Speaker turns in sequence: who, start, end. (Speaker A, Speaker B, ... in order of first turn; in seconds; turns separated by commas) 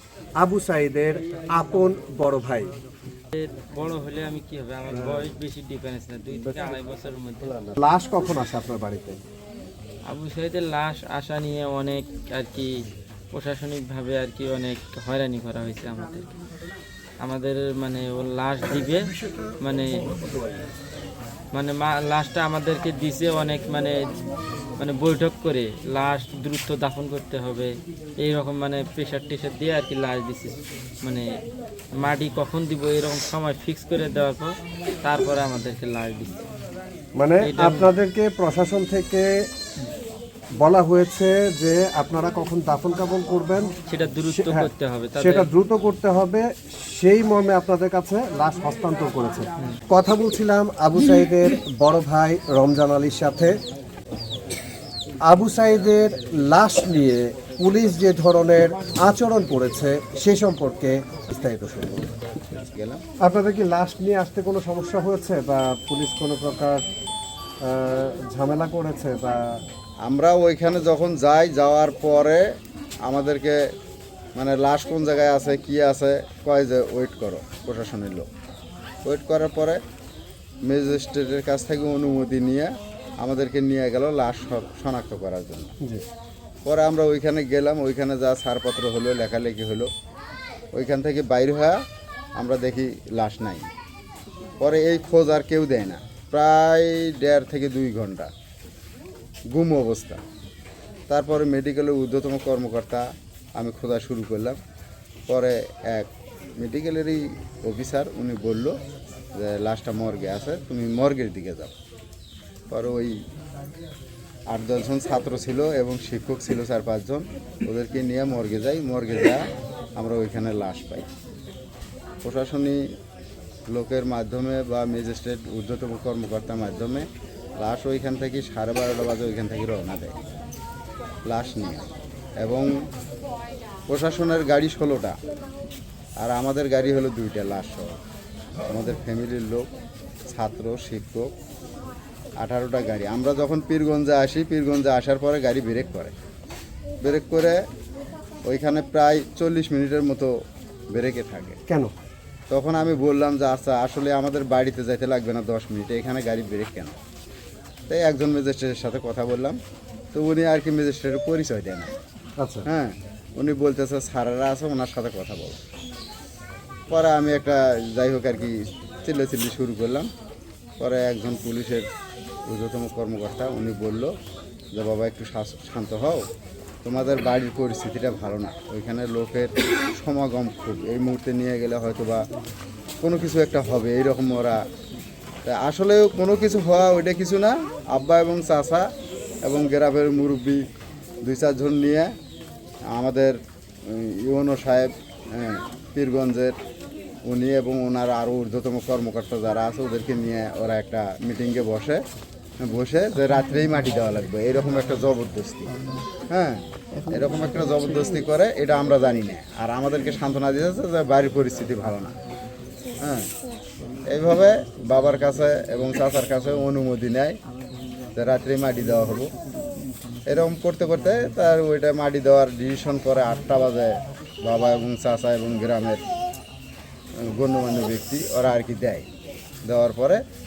Speaker A: 0.4-2.7, Speaker B: 3.3-7.6, Speaker A: 7.7-9.2, Speaker B: 10.1-16.3, Speaker B: 17.2-20.1, Speaker B: 21.5-24.1, Speaker B: 24.8-31.3, Speaker B: 31.9-36.4, Speaker A: 37.2-39.5, Speaker B: 37.4-37.9, Speaker A: 40.6-43.7, Speaker B: 43.9-45.5, Speaker A: 44.3-53.5, Speaker A: 55.2-62.1, Speaker C: 62.6-63.0, Speaker A: 63.2-66.8, Speaker A: 67.6-69.6, Speaker C: 70.0-72.4, Speaker C: 73.0-73.6, Speaker C: 74.3-78.3, Speaker C: 79.0-79.8, Speaker C: 80.7-85.7, Speaker C: 86.7-89.9, Speaker C: 90.7-91.8, Speaker C: 92.4-93.7, Speaker C: 94.6-98.3, Speaker C: 99.5-100.2, Speaker C: 101.1-103.0, Speaker C: 103.6-104.6, Speaker C: 105.3-108.8, Speaker C: 109.3-111.7, Speaker C: 112.7-113.2, Speaker C: 114.5-119.5, Speaker C: 120.0-121.1, Speaker C: 122.2-122.8, Speaker C: 123.7-127.1, Speaker C: 127.6-130.2, Speaker C: 131.2-131.9, Speaker C: 132.4-132.7, Speaker C: 133.9-135.2, Speaker C: 136.2-138.0, Speaker C: 138.7-139.7, Speaker C: 140.3-141.3, Speaker C: 142.4-146.1, Speaker C: 147.0-147.6, Speaker C: 148.5-150.3, Speaker C: 150.9-151.6, Speaker C: 152.5-157.0, Speaker C: 157.9-159.6, Speaker C: 160.1-161.9, Speaker A: 162.4-162.7, Speaker C: 162.7-165.6, Speaker C: 166.9-170.1, Speaker C: 170.8-171.9, Speaker C: 172.5-174.1, Speaker C: 174.7-176.2, Speaker C: 176.8-182.2, Speaker C: 183.0-184.6, Speaker C: 185.5-188.9, Speaker C: 189.4-190.6, Speaker C: 191.2-192.1, Speaker C: 192.9-196.6, Speaker C: 197.2-202.0, Speaker C: 202.6-205.8, Speaker C: 206.3-212.2, Speaker C: 213.0-213.3, Speaker C: 214.1-217.4, Speaker C: 218.2-219.3, Speaker C: 220.2-226.0, Speaker C: 227.2-229.1, Speaker C: 229.7-230.2